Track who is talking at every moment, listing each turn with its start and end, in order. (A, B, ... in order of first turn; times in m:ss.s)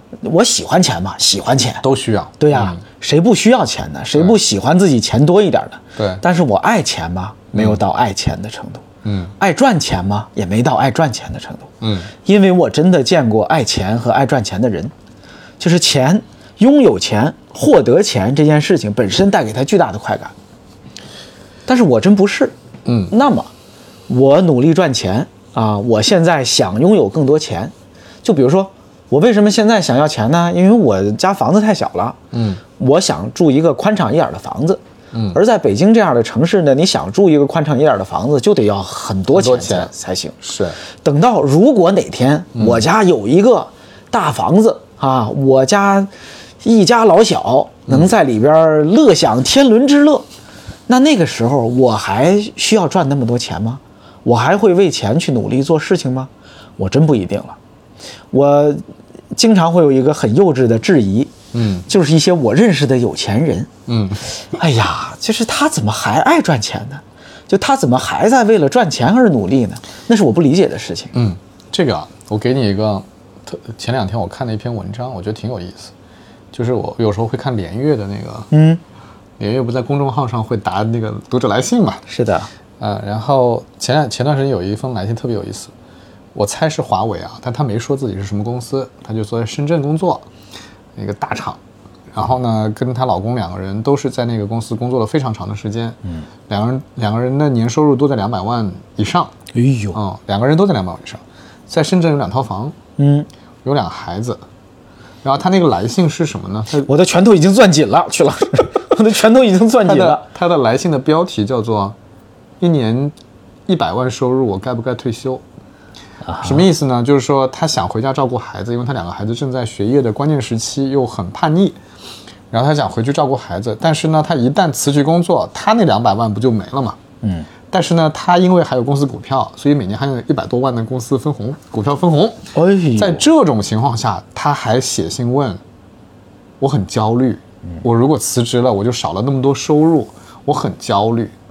0:00.2-0:01.8 A
0:01.8-0:02.8 B
0:02.4-0:08.9 A
0:06.0-0:06.2 B
0:07.5-0:07.8 B
0:09.0-0:09.3 B
0:09.4-0:11.7 A
0:11.8-0:12.1 B
0:12.2-0:14.9 A
0:15.6-0:20.3 A
0:21.7-0:22.6 A
0:22.8-0:23.1 B
0:23.1-0:23.5 A
0:24.1-0:27.7 A
0:28.2-0:32.2 A
0:32.3-0:32.6 B
0:32.8-0:34.8 A
0:35.1-0:35.4 B
0:35.3-0:40.4 A
0:39.3-0:39.9 B
0:40.4-0:40.8 B
0:41.0-0:46.1 A
0:42.6-0:42.8 B
0:46.6-0:50.3 A
0:50.9-0:57.6 A
0:58.3-1:01.3 A
1:01.5-1:01.9 B
1:01.9-1:03.7 A
1:03.9-1:04.3 B
1:04.5-1:11.1 A
1:11.1-1:15.9 B
1:16.5-1:18.5 B
1:18.5-1:18.8 A
1:19.4-1:22.0 B
1:22.1-1:22.5 A
1:22.8-1:25.7 B
1:26.3-1:30.3 B
1:31.0-1:31.6 B
1:32.1-1:39.3 B
1:39.5-1:40.0 A
1:39.9-1:42.8 B
1:43.0-1:43.3 A
1:43.6-1:44.4 B
1:45.2-1:46.9 B
1:46.8-1:50.2 A
1:49.8-1:52.0 B
1:52.6-1:53.2 B
1:53.7-1:55.4 B
1:56.3-1:56.6 A
1:56.4-2:01.8 B
2:02.5-2:07.0 B
2:07.2-2:07.5 A
2:07.7-2:15.6 B
2:12.6-2:13.2 A
2:16.6-2:21.4 B